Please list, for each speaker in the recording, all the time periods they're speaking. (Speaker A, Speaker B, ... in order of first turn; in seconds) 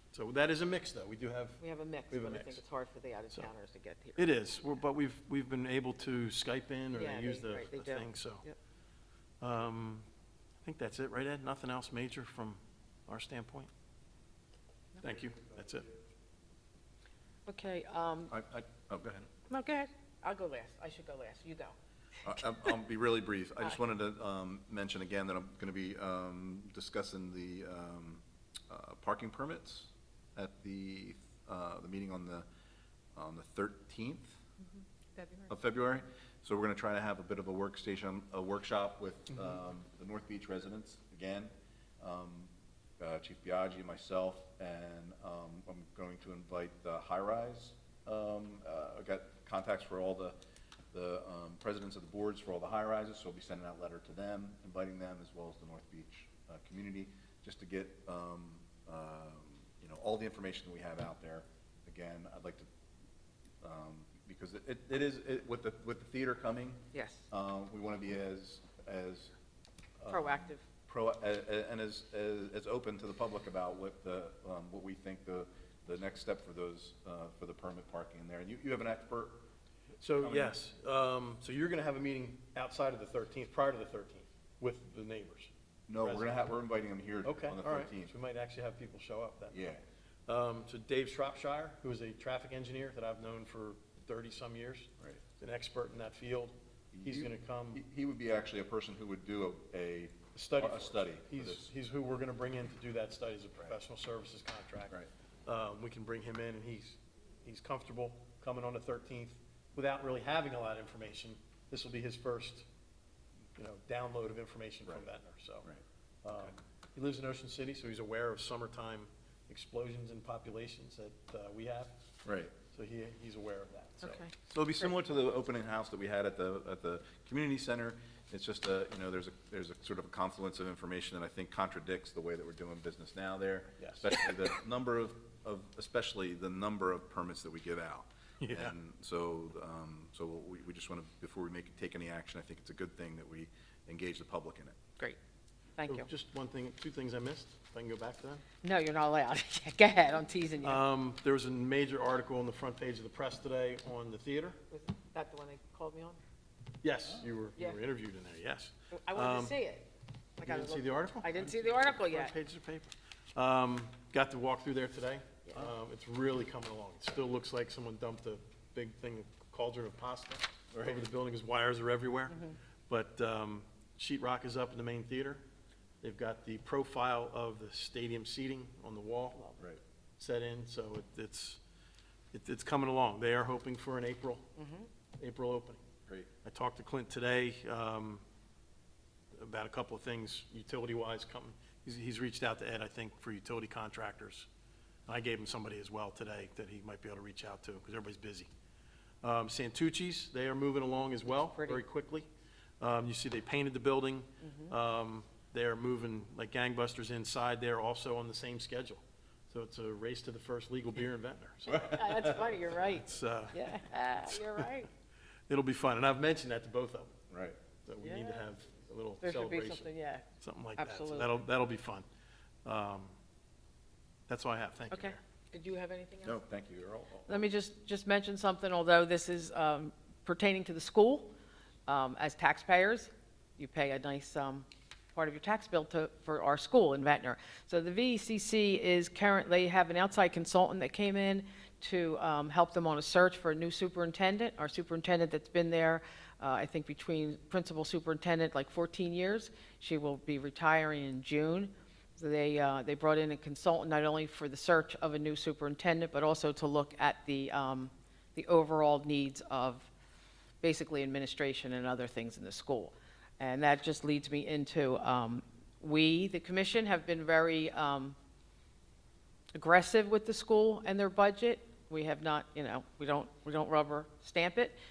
Speaker A: 0.1-2.6, 4.2-8.4, 9.4-10.1, 10.6-13.7, 15.0-15.9, 80.0-86.6, 87.2-89.6, 90.3-97.8, 100.3-112.6, 113.5-115.7, 116.2-122.0, 122.7-124.5, 133.8-134.1, 138.4-138.7, 145.9-148.4, 150.6-154.6, 156.8-159.6, 160.4-175.4, 176.0-179.6, 180.2-181.6, 182.3-184.5, 185.2-185.8, 186.4-188.2, 189.4-194.5, 195.1-198.5, 199.2-202.3, 202.8-213.7, 215.5-217.1, 217.8-222.1, 222.6-223.1, 224.3-225.2
Speaker B: 1.6-4.4, 6.9-8.5, 17.4-18.3, 19.5-21.7, 66.9-67.2, 70.1-70.6, 124.0-124.3, 145.8-146.1, 148.6-150.8, 154.7-156.2, 157.6-157.8, 158.9-159.9, 160.4-162.3, 184.6-184.9, 201.3-201.8, 204.4-204.7, 211.7-214.9, 218.0-218.5, 219.2-221.4, 224.9-226.4, 227.3-231.3, 231.9-259.9, 260.6-268.2, 269.5-274.8
Speaker C: 18.3-19.3, 22.2-32.5, 33.1-34.4, 35.5-50.3, 50.9-62.6, 63.6-69.3, 70.0-79.4, 80.2-80.5, 85.9-88.1, 89.5-89.8, 96.9-101.7, 122.2-122.5, 124.5-144.8, 170.7-171.0, 217.3-217.6, 226.2-227.5